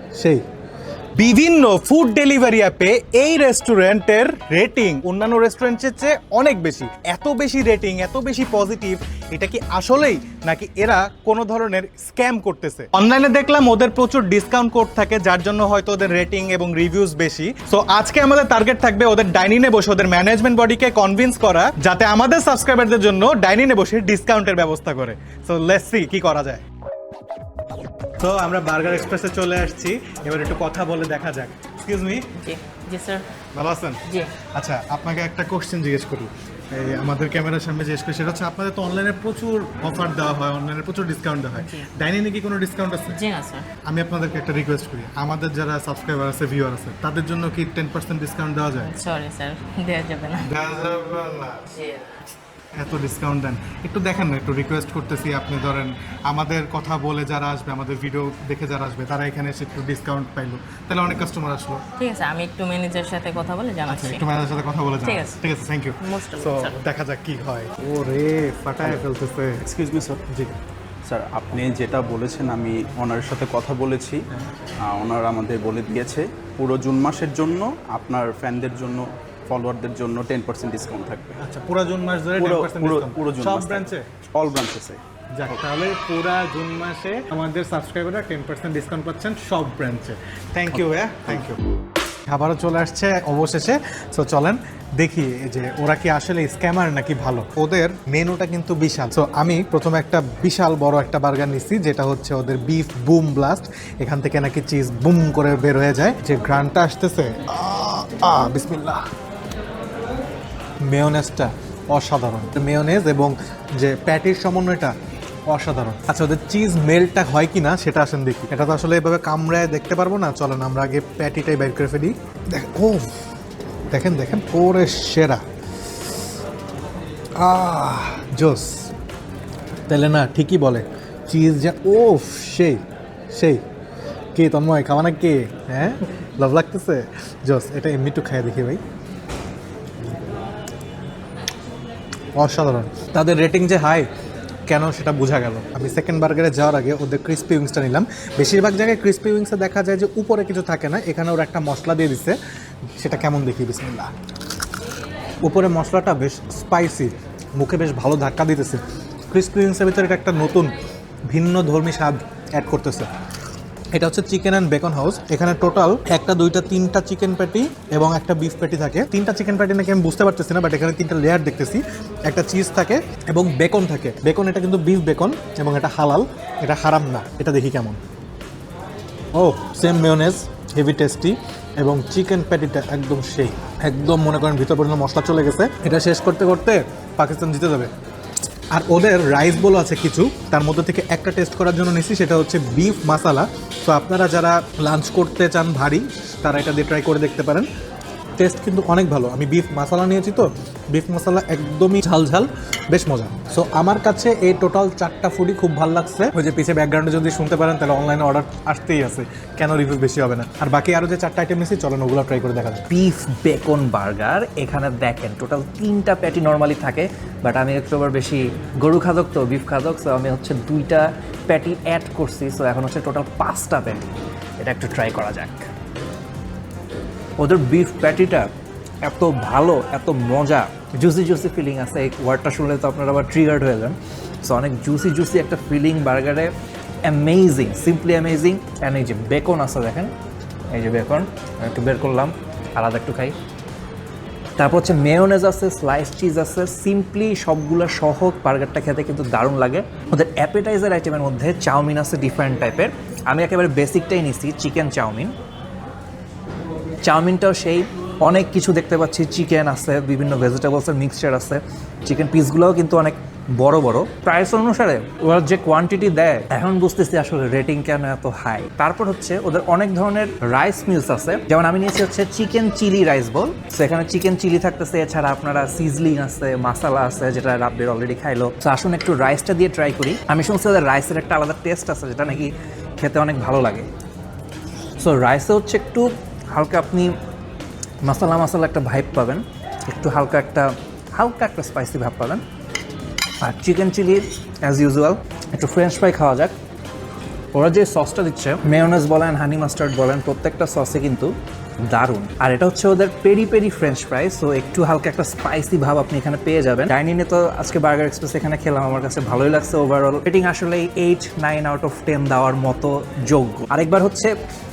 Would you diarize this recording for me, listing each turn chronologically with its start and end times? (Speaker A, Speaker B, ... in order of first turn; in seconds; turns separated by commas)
Speaker A: 0.2-0.4, Speaker A: 1.2-26.6, Speaker A: 28.2-32.3, Speaker B: 32.4-33.2, Speaker A: 33.5-43.2, Speaker B: 34.1-34.3, Speaker B: 41.6-41.9, Speaker B: 43.1-43.7, Speaker A: 43.8-48.9, Speaker B: 48.8-50.5, Speaker A: 50.4-51.7, Speaker B: 51.7-52.2, Speaker A: 52.7-61.8, Speaker B: 62.0-64.2, Speaker A: 63.9-69.6, Speaker B: 65.0-65.4, Speaker B: 66.0-66.8, Speaker C: 69.6-70.2, Speaker A: 70.3-70.5, Speaker C: 71.0-74.2, Speaker C: 74.8-81.4, Speaker A: 81.4-84.1, Speaker C: 82.4-85.0, Speaker A: 85.3-91.6, Speaker A: 92.3-109.0, Speaker A: 110.8-114.9, Speaker A: 115.5-123.2, Speaker A: 123.9-125.4, Speaker A: 127.4-128.9, Speaker A: 129.9-133.6, Speaker A: 134.3-138.8, Speaker A: 142.3-144.1, Speaker A: 144.7-152.4, Speaker A: 153.0-154.1, Speaker A: 155.4-160.7, Speaker A: 161.3-163.1, Speaker A: 163.9-178.0, Speaker A: 179.3-187.9, Speaker A: 188.7-197.7, Speaker A: 198.4-212.8, Speaker D: 212.9-224.1, Speaker D: 224.6-225.7, Speaker D: 227.4-228.5, Speaker D: 229.0-236.5, Speaker D: 237.0-240.1, Speaker D: 240.7-243.3, Speaker D: 244.6-255.3, Speaker D: 257.0-283.9, Speaker D: 285.0-287.1, Speaker D: 288.0-292.4, Speaker D: 293.4-296.6, Speaker D: 297.5-301.3, Speaker D: 301.9-314.3